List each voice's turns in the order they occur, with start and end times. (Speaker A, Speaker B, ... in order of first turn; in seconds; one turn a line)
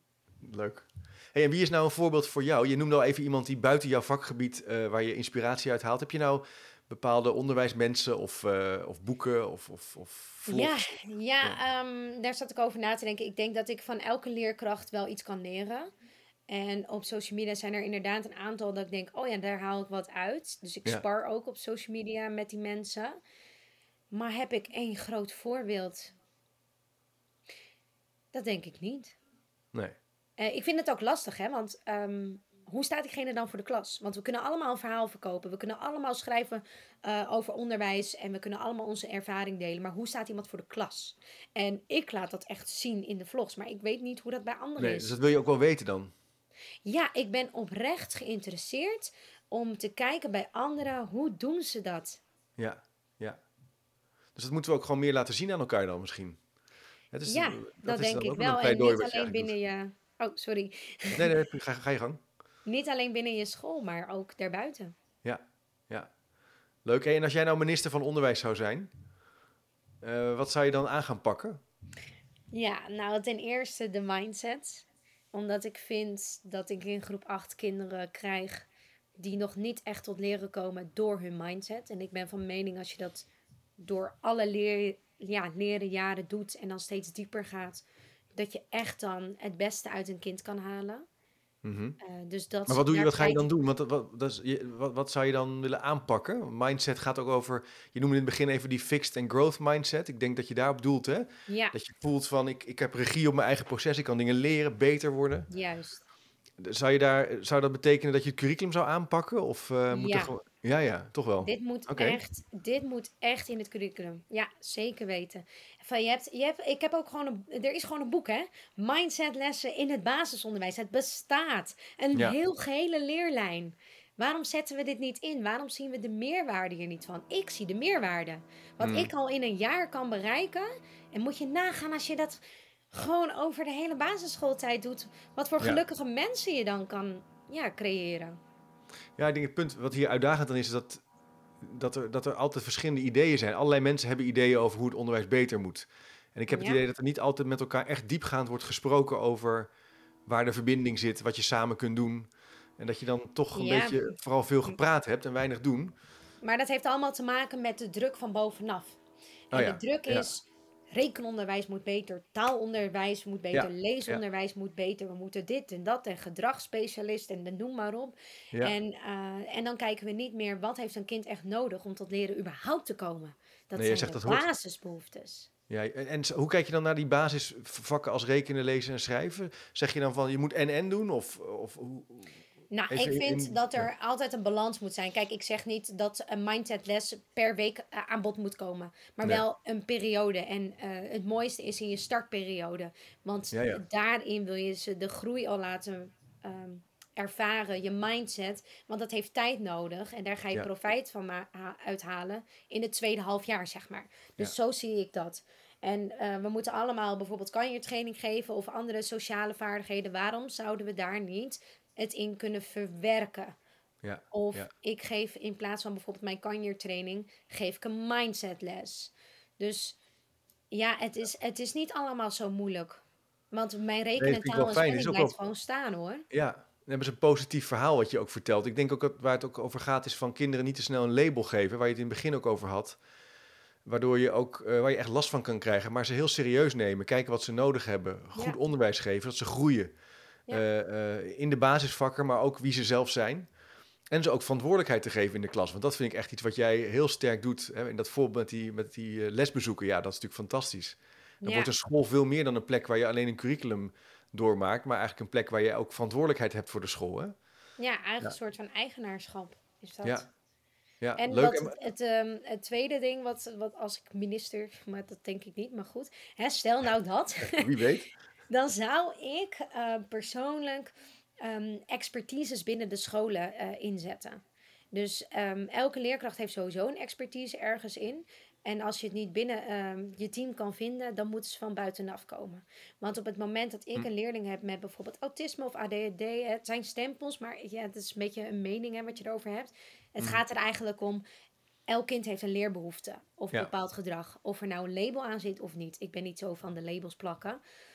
Speaker A: 0.4-10.8
Speaker B: 10.5-15.9
Speaker B: 16.5-23.2
Speaker B: 24.1-26.1
Speaker B: 28.3-29.2
Speaker B: 30.4-45.1
Speaker A: 44.8-46.1
Speaker B: 46.9-52.2
Speaker A: 52.6-53.4
Speaker A: 54.4-56.4
Speaker A: 57.1-59.5
Speaker B: 57.3-61.4
Speaker A: 61.1-62.2
Speaker B: 62.7-64.9
Speaker A: 65.2-66.1
Speaker A: 66.8-68.9
Speaker A: 70.0-71.6
Speaker B: 72.5-78.7
Speaker B: 79.2-83.3
Speaker B: 83.8-87.8
Speaker B: 88.4-91.1
Speaker A: 91.6-92.0
Speaker B: 92.0-93.5
Speaker A: 92.7-105.5
Speaker B: 101.5-101.8
Speaker B: 105.5-106.1
Speaker A: 106.6-112.2
Speaker B: 109.9-110.3
Speaker B: 111.4-132.4
Speaker A: 128.8-129.1
Speaker B: 132.9-138.4
Speaker A: 139.2-141.0
Speaker A: 141.6-149.7
Speaker B: 146.5-146.8
Speaker A: 150.3-155.9
Speaker B: 153.6-154.8
Speaker B: 156.4-159.0
Speaker A: 159.5-160.3
Speaker B: 159.5-175.5
Speaker A: 163.5-164.2
Speaker A: 173.8-174.5
Speaker A: 175.7-182.4
Speaker B: 182.7-213.6
Speaker A: 182.9-183.9
Speaker A: 193.5-193.8
Speaker A: 214.0-214.7
Speaker B: 214.3-220.0
Speaker B: 220.7-226.3
Speaker A: 224.2-225.4
Speaker A: 226.3-233.0
Speaker A: 233.8-239.9
Speaker A: 240.5-243.5
Speaker A: 244.1-257.3
Speaker B: 251.4-251.7
Speaker B: 257.8-260.3
Speaker A: 261.0-261.8
Speaker B: 261.2-267.8
Speaker A: 267.4-268.1
Speaker B: 268.5-270.9
Speaker B: 271.4-274.4
Speaker B: 274.9-291.2
Speaker B: 291.9-297.6